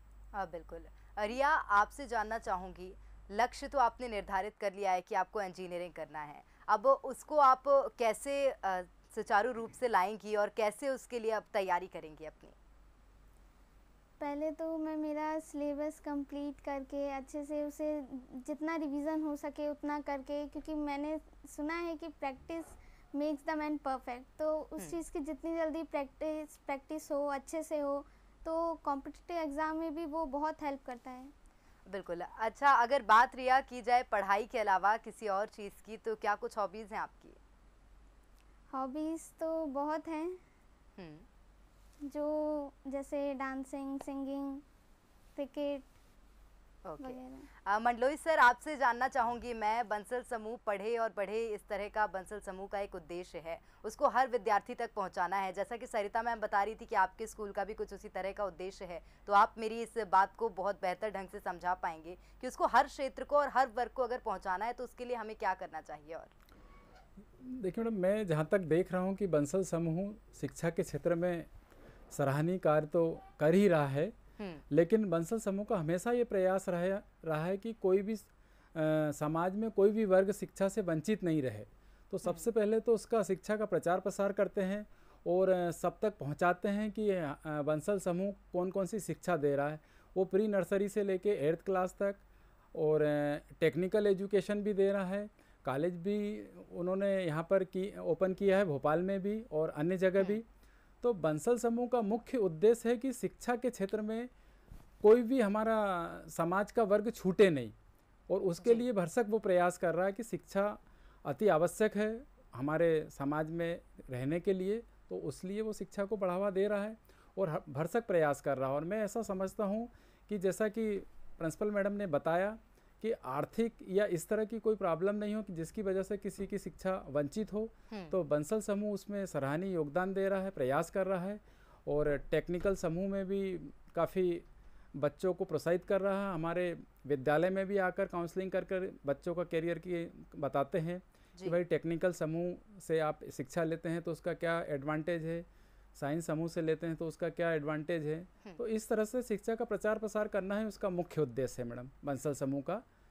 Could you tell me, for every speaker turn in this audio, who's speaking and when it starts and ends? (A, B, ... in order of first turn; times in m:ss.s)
0:00.3-0:12.6 A
0:14.2-0:31.3 B
0:31.9-0:37.4 A
0:38.7-0:40.4 B
0:41.0-0:41.3 A
0:42.0-0:44.6 B
0:45.4-0:45.9 B
0:46.8-1:06.3 A
0:47.0-0:47.5 B
1:07.4-1:11.5 C
1:12.1-1:14.2 C
1:14.7-1:32.2 C
1:32.7-1:40.4 C
1:41.0-1:44.3 C
1:45.0-1:47.8 C
1:48.3-2:32.8 C
2:07.9-2:08.2 A